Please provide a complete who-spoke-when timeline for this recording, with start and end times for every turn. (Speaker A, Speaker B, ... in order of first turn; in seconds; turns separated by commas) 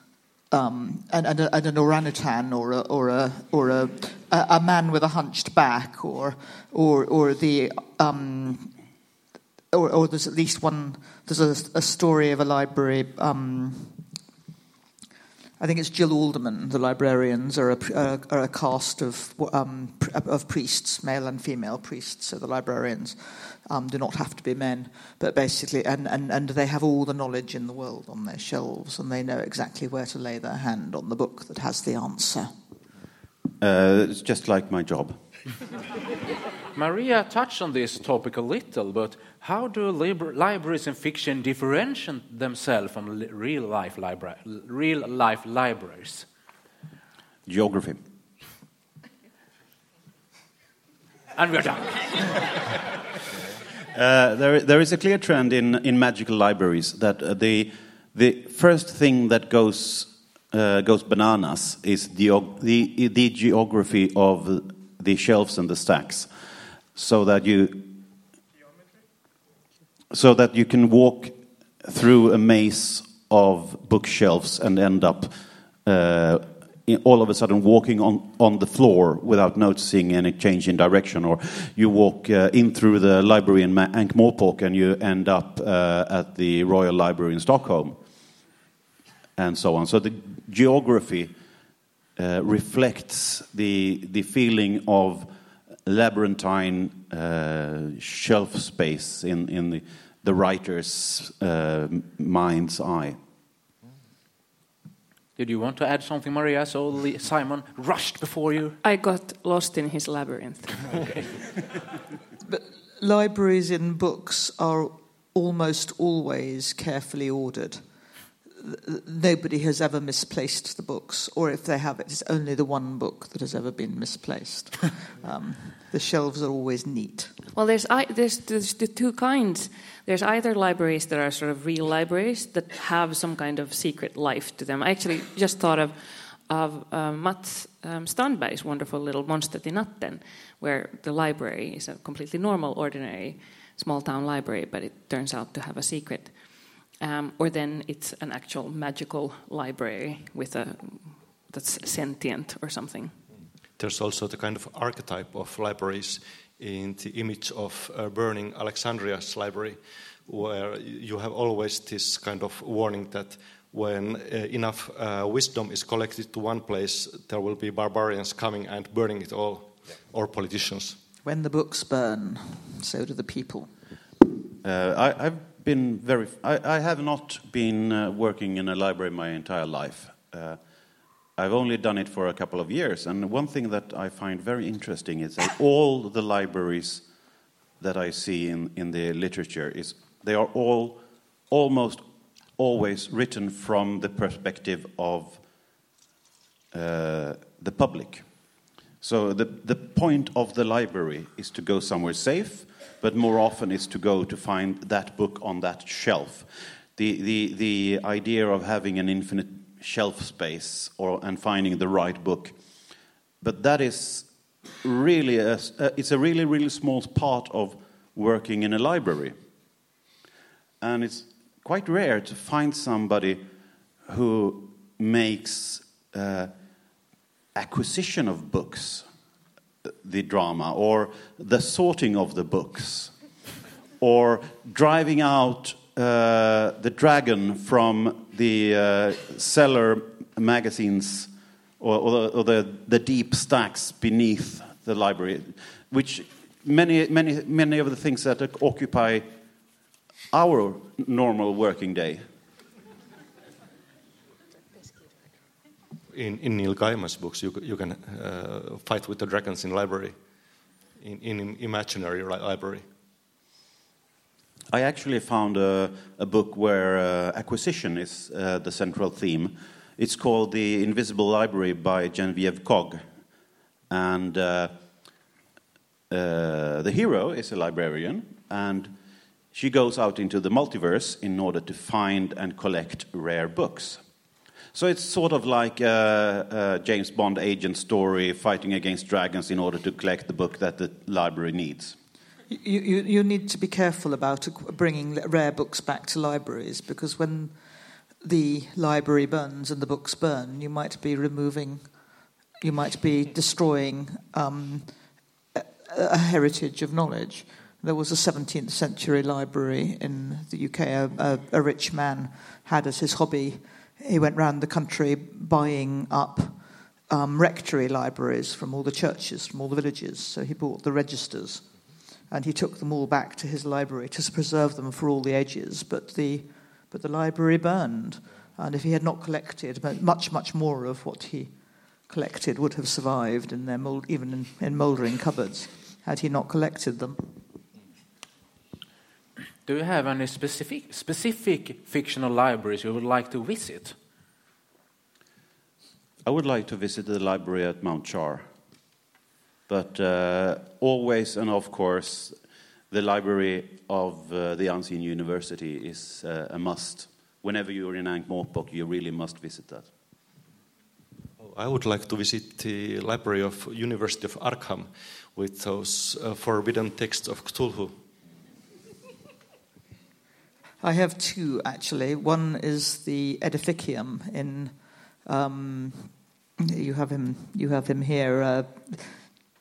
Speaker A: 0.5-8.7, Speaker A: 9.7-14.0, Speaker A: 15.6-32.5, Speaker B: 33.6-35.2, Speaker C: 36.7-46.2, Speaker B: 47.5-48.0, Speaker C: 51.4-52.6, Speaker B: 53.9-66.3, Speaker B: 66.9-68.0, Speaker B: 70.1-88.0, Speaker B: 89.4-91.3, Speaker B: 92.2-95.3, Speaker B: 95.8-103.2, Speaker C: 105.3-108.8, Speaker D: 108.8-111.0, Speaker A: 112.5-117.8, Speaker A: 118.6-127.3, Speaker D: 127.5-153.2, Speaker E: 153.7-171.0, Speaker A: 171.2-173.7, Speaker B: 174.6-180.6, Speaker B: 181.4-187.1, Speaker B: 187.8-195.7, Speaker B: 196.7-198.5, Speaker B: 199.0-212.6, Speaker B: 213.4-219.4, Speaker B: 220.8-223.4, Speaker B: 224.0-226.5, Speaker B: 227.5-229.1, Speaker B: 229.8-233.3, Speaker B: 234.0-249.3, Speaker B: 250.3-252.3, Speaker E: 256.1-260.1, Speaker E: 261.0-262.9, Speaker B: 264.7-273.0, Speaker B: 273.9-274.7, Speaker B: 276.1-278.9, Speaker B: 279.5-284.0, Speaker B: 284.7-292.0, Speaker A: 292.5-297.6, Speaker A: 298.2-337.3, Speaker C: 339.6-343.9, Speaker B: 346.2-348.5, Speaker B: 349.7-352.4, Speaker B: 352.9-359.9, Speaker E: 361.4-368.0, Speaker A: 370.8-379.4